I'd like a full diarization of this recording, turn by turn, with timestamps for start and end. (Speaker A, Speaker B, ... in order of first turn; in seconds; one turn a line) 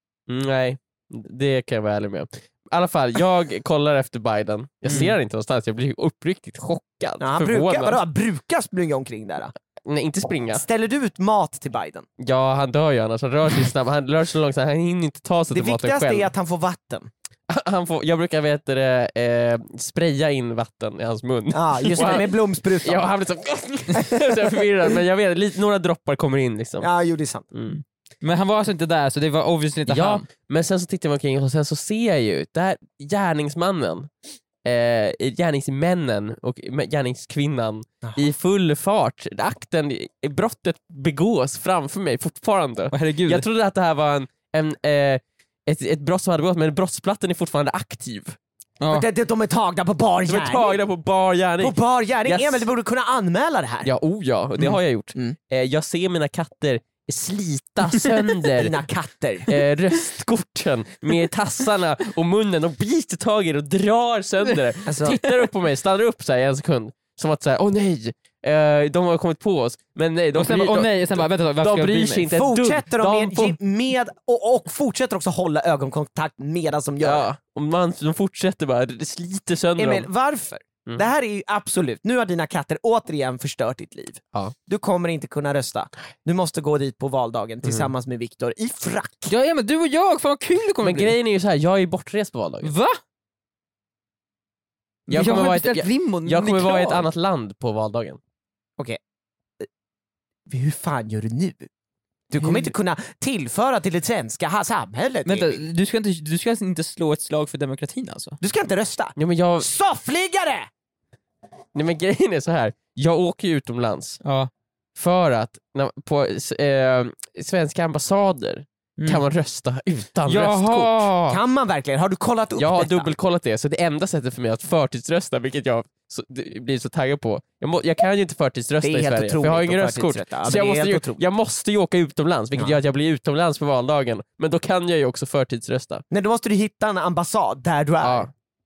Speaker A: 0.3-8.0
Speaker B: 4.9-5.1
Speaker C: 7.2-9.5
Speaker A: 9.9-10.6
Speaker C: 10.5-12.1
Speaker A: 12.2-16.3
Speaker C: 15.5-17.1
Speaker A: 17.5-26.9
Speaker C: 21.5-23.1
Speaker C: 23.9-24.6
Speaker C: 26.8-27.5
Speaker A: 27.5-27.8
Speaker B: 28.2-30.2
Speaker A: 29.9-34.1
Speaker A: 34.6-48.4
Speaker B: 42.9-43.5
Speaker B: 48.8-49.1
Speaker C: 48.9-50.8
Speaker A: 50.3-52.7
Speaker C: 51.6-53.9
Speaker A: 53.9-58.8
Speaker C: 54.6-55.4
Speaker C: 58.6-59.5
Speaker A: 59.5-73.6
Speaker C: 64.9-65.2
Speaker B: 70.3-72.3
Speaker C: 72.3-77.3
Speaker A: 77.0-80.1
Speaker C: 79.8-89.3
Speaker A: 87.6-87.9
Speaker B: 89.3-91.2
Speaker A: 90.8-92.7
Speaker B: 92.6-93.0
Speaker B: 95.1-97.1
Speaker A: 95.1-98.2
Speaker C: 100.5-101.7
Speaker C: 102.3-105.6
Speaker B: 102.4-102.7
Speaker B: 105.2-108.4
Speaker C: 108.4-110.7
Speaker A: 109.2-109.7
Speaker A: 111.7-114.2
Speaker B: 114.2-114.5
Speaker A: 115.0-121.1
Speaker B: 119.0-119.2
Speaker B: 120.3-121.4
Speaker C: 121.3-123.1
Speaker A: 122.6-136.0
Speaker C: 128.8-131.2
Speaker C: 136.1-138.3
Speaker A: 138.0-138.3